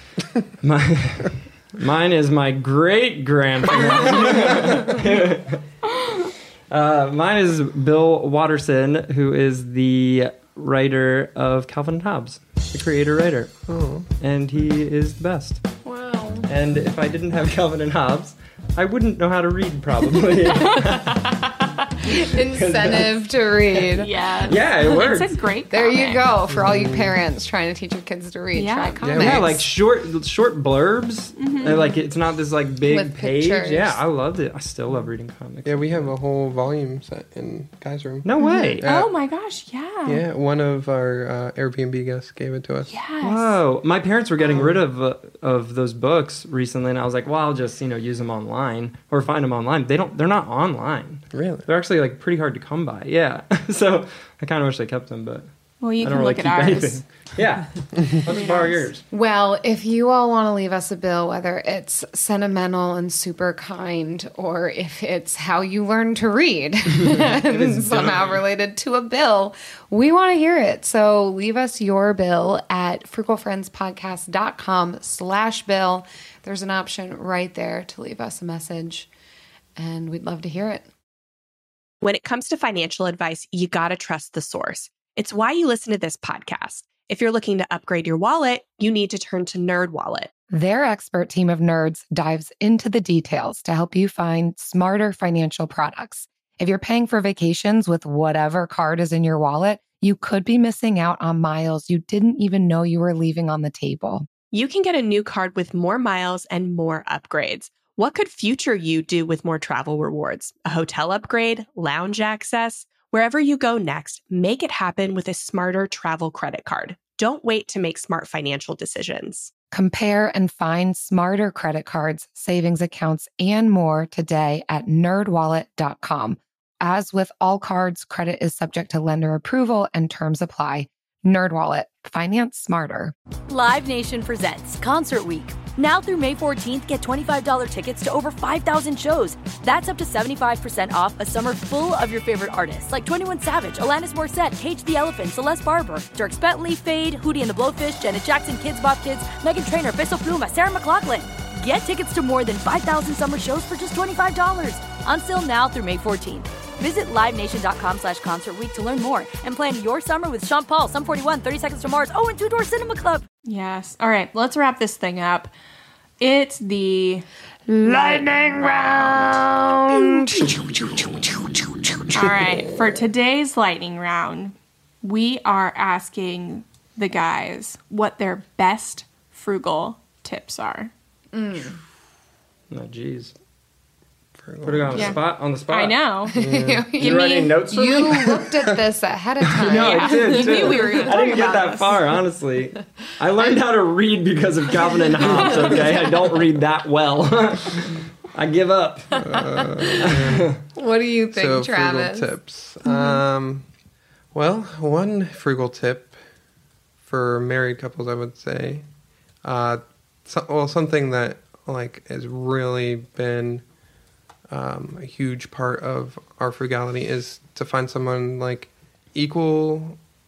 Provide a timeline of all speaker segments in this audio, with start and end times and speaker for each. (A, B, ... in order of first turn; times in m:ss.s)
0:00.6-0:05.6 A
0:06.7-0:13.5 A
0:13.7-0:14.1 B
0:14.2-0:15.6 A
0:15.8-0:16.5 C
0:16.5-0:21.4 A
0:20.9-0:24.5 C
0:22.4-0:23.2 A
0:23.9-0:26.3 D
0:24.4-0:25.4 A
0:25.7-0:29.6 C
0:26.5-0:27.1 B
0:28.5-0:29.0 D
0:29.0-0:29.5 B
0:29.2-0:36.1 A
0:31.4-0:31.9 D
0:32.8-0:34.0 C
0:35.6-0:38.3 B
0:38.2-0:38.8 A
0:38.4-0:40.2 D
0:38.8-0:39.1 B
0:40.0-0:42.9 B
0:42.9-0:43.6 D
0:43.2-0:55.5 A
0:51.3-0:51.7 B
0:55.8-0:57.0 D
0:56.0-0:59.0 A
0:58.4-0:58.7 D
0:58.5-1:19.1 C
1:07.1-1:08.4 A
1:19.8-1:20.9 C
1:22.0-1:30.3 E
1:30.5-1:44.3 C
1:44.5-1:59.5 E
1:59.7-2:13.1 C
2:13.5-2:43.2 F
2:43.4-2:45.5 D
2:46.2-2:47.2 D
2:47.7-2:52.4 C
2:52.1-3:00.9 D
3:01.3-3:01.8 C
3:02.7-3:03.3 A
3:04.4-3:05.2 B
3:04.6-3:06.0 A
3:04.9-3:06.3 D
3:06.3-3:11.3 C
3:06.3-3:06.9 B
3:07.0-3:08.0 D
3:07.0-3:08.5 A
3:09.6-3:19.4 A
3:09.6-3:12.1 D
3:19.2-3:20.6 B
3:19.3-3:19.9 C
3:20.0-3:20.6 A
3:20.7-3:22.3 C
3:21.3-3:23.7 B
3:22.8-3:23.2 C
3:24.3-3:26.2 B
3:27.0-3:28.8 B
3:29.4-3:33.6 B
3:34.5-3:40.0 B